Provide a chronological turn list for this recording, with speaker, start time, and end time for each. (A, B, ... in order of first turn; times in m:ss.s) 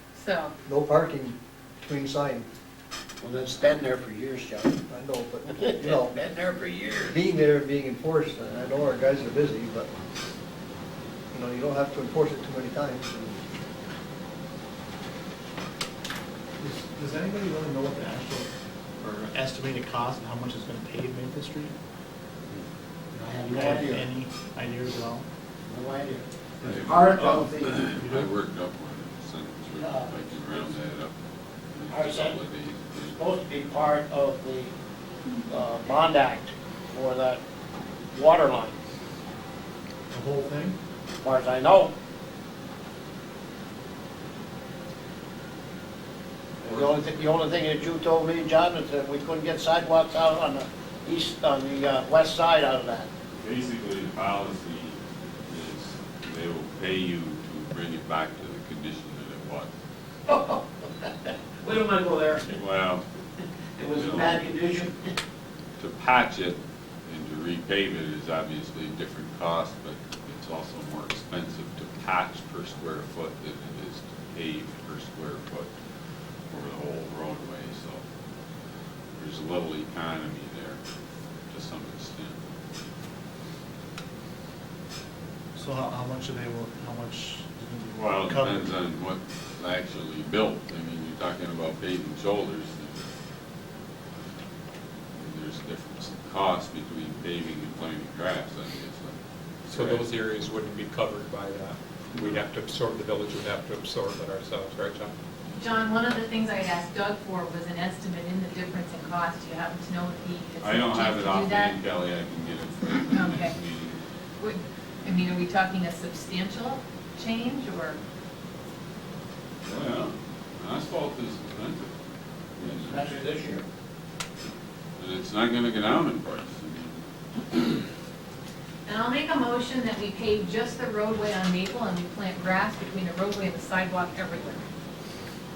0:00.1-0:00.5 A
0:00.6-0:02.5 B
0:03.2-0:04.8 C
0:04.9-0:06.2 B
0:05.5-0:07.2 C
0:07.0-0:09.9 B
0:11.3-0:13.4 B
0:16.6-0:18.5 D
0:19.0-0:21.7 D
0:23.1-0:24.0 C
0:23.5-0:25.2 D
0:25.6-0:26.2 C
0:26.6-0:28.3 D
0:26.6-0:31.1 E
0:26.8-0:27.9 C
0:29.8-0:30.7 C
0:31.7-0:33.2 E
0:31.9-0:32.4 C
0:33.1-0:34.7 C
0:35.4-0:37.4 C
0:38.1-0:38.8 C
0:40.1-0:40.8 D
0:41.2-0:41.9 C
0:46.6-0:53.1 C
0:53.4-0:59.7 E
1:00.3-1:02.6 C
1:02.5-1:03.0 E
1:03.8-1:05.1 C
1:03.9-1:04.5 E
1:05.8-1:15.7 E
1:16.5-1:18.0 E
1:19.2-1:20.8 E
1:21.5-1:22.4 E
1:25.6-1:28.7 D
1:27.9-1:33.1 E
1:35.2-1:39.1 E
1:39.6-1:40.1 E
1:39.7-1:45.1 F
1:42.1-1:42.4 E
1:45.5-1:51.8 A
1:50.6-1:54.0 E
1:53.1-1:53.6 A
1:54.4-1:58.0 A
1:59.6-2:01.9 E
2:02.6-2:03.2 E
2:02.6-2:03.6 C
2:05.0-2:07.8 E
2:08.8-2:14.6 A